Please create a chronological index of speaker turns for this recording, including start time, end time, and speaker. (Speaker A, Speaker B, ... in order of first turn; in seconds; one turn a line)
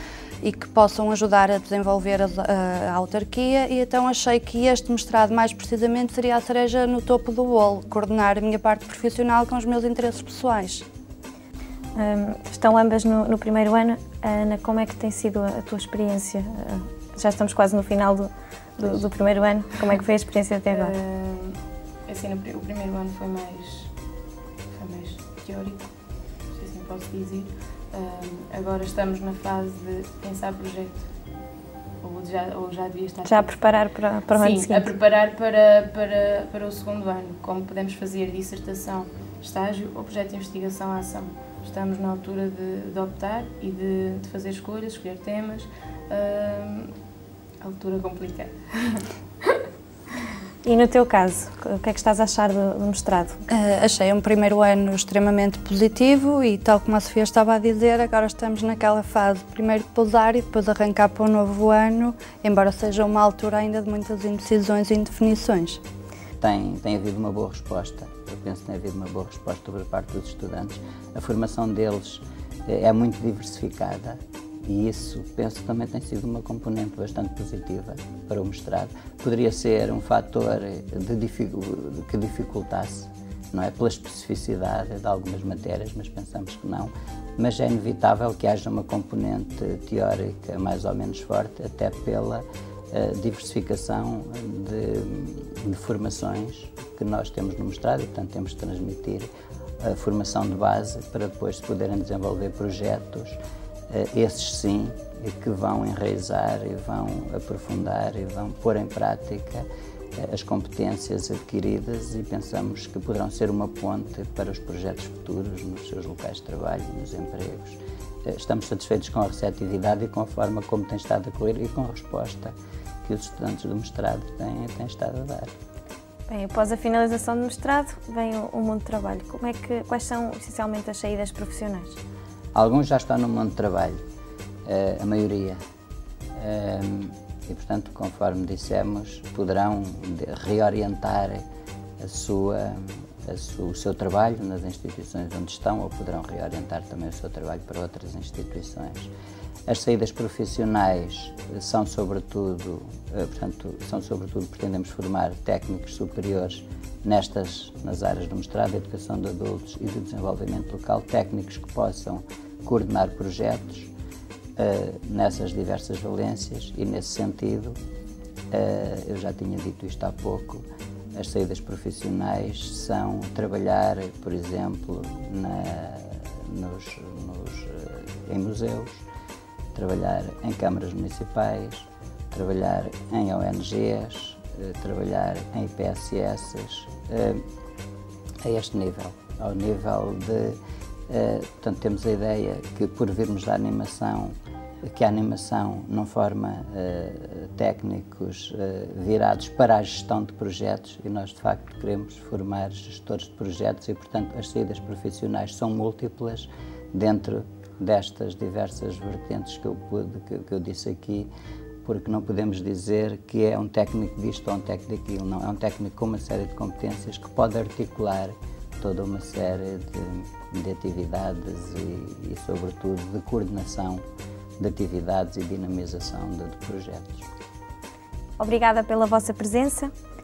Speaker A: 0.4-10.8
Speaker B: 11.9-20.9
Speaker C: 20.7-23.9
Speaker C: 24.7-25.9
Speaker C: 26.5-31.0
Speaker C: 32.0-33.6
Speaker B: 33.2-34.9
Speaker C: 34.3-46.9
Speaker C: 47.6-49.6
Speaker B: 50.6-53.4
Speaker A: 53.5-65.8
Speaker D: 66.4-99.3
Speaker D: 99.8-103.4
Speaker D: 103.9-109.7
Speaker D: 110.2-125.5
Speaker B: 126.3-132.0
Speaker D: 132.5-134.0
Speaker D: 134.7-135.6
Speaker D: 136.3-141.4
Speaker D: 142.0-149.1
Speaker D: 149.7-163.9
Speaker D: 164.6-167.8
Speaker D: 168.5-179.1
Speaker D: 179.7-187.4
Speaker D: 188.4-190.6
Speaker D: 191.1-211.3
Speaker D: 211.8-224.0
Speaker D: 224.6-227.3
Speaker B: 228.4-229.9